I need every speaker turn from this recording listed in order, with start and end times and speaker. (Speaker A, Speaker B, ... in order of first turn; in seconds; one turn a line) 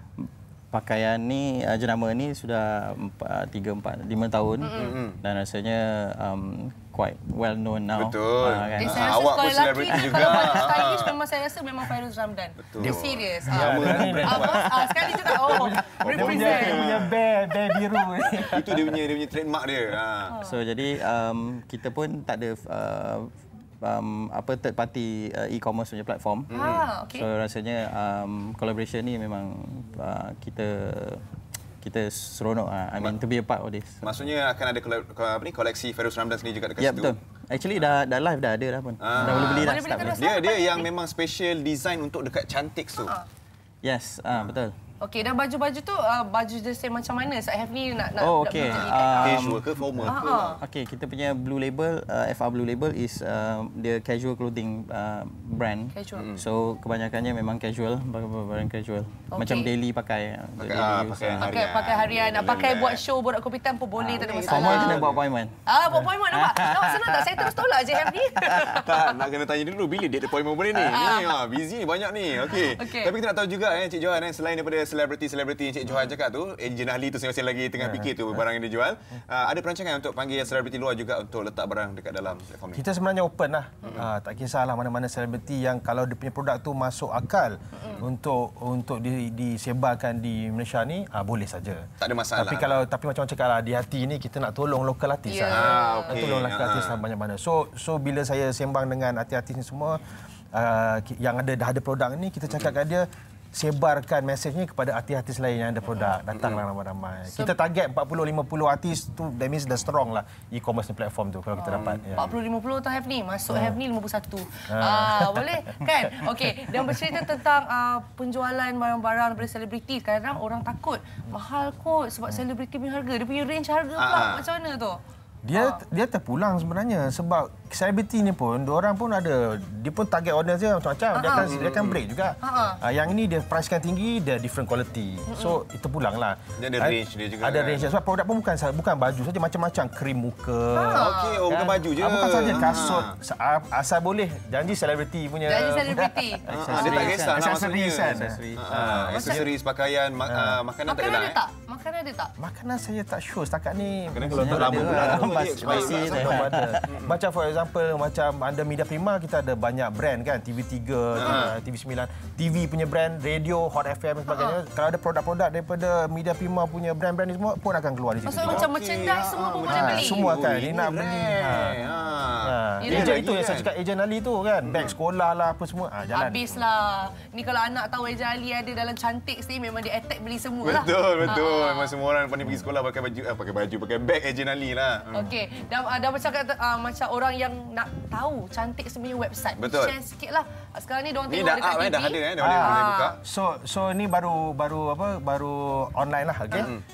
Speaker A: 0.7-9.0
Speaker B: 4.6-5.0
Speaker C: 4.8-5.2
Speaker C: 8.0-11.2
Speaker B: 8.8-16.9
Speaker C: 12.7-14.8
Speaker D: 13.6-14.7
Speaker C: 15.5-17.1
Speaker D: 16.0-18.9
Speaker C: 18.4-20.4
Speaker A: 20.4-26.5
Speaker C: 26.5-26.9
Speaker B: 26.5-27.2
Speaker A: 27.1-31.2
Speaker A: 31.8-34.0
Speaker C: 34.0-37.1
Speaker A: 36.8-40.2
Speaker C: 39.0-43.1
Speaker B: 39.2-40.9
Speaker A: 43.8-44.7
Speaker B: 45.0-49.5
Speaker A: 48.2-61.5
Speaker C: 49.0-50.6
Speaker B: 50.1-50.6
Speaker B: 55.9-56.3
Speaker B: 59.3-59.7
Speaker C: 60.6-63.0
Speaker B: 61.4-65.0
Speaker C: 64.0-65.2
Speaker A: 64.3-65.5
Speaker B: 65.7-68.8
Speaker A: 66.3-67.0
Speaker C: 68.7-82.8
Speaker B: 70.9-71.3
Speaker B: 72.8-73.1
Speaker D: 82.8-100.0
Speaker B: 87.8-88.0
Speaker C: 92.0-92.8
Speaker B: 95.3-96.2
Speaker C: 95.5-97.0
Speaker D: 100.5-112.2
Speaker C: 106.3-106.6
Speaker B: 111.6-125.0
Speaker C: 111.7-112.1
Speaker D: 114.7-115.4
Speaker C: 124.0-124.5
Speaker D: 125.5-149.5
Speaker B: 125.5-125.8
Speaker B: 131.1-131.5
Speaker C: 131.3-132.0
Speaker B: 132.4-132.8
Speaker B: 135.3-135.6
Speaker C: 136.6-137.9
Speaker B: 140.7-141.4
Speaker C: 140.9-143.1
Speaker B: 145.5-146.4
Speaker C: 146.5-151.4
Speaker A: 146.5-147.4
Speaker A: 148.2-148.9
Speaker B: 148.9-149.5
Speaker D: 150.3-150.6
Speaker B: 150.9-152.3
Speaker D: 152.4-168.7
Speaker C: 154.1-157.1
Speaker A: 154.2-156.8
Speaker C: 161.2-161.5
Speaker B: 164.3-164.6
Speaker C: 168.3-173.7
Speaker B: 168.3-170.2
Speaker D: 169.7-171.8
Speaker D: 172.4-176.4
Speaker B: 172.8-173.2
Speaker C: 174.6-174.9
Speaker B: 176.1-181.9
Speaker C: 180.6-185.3
Speaker B: 185.1-193.1
Speaker C: 189.6-189.9
Speaker C: 191.3-193.2
Speaker D: 192.4-196.7
Speaker C: 196.6-196.8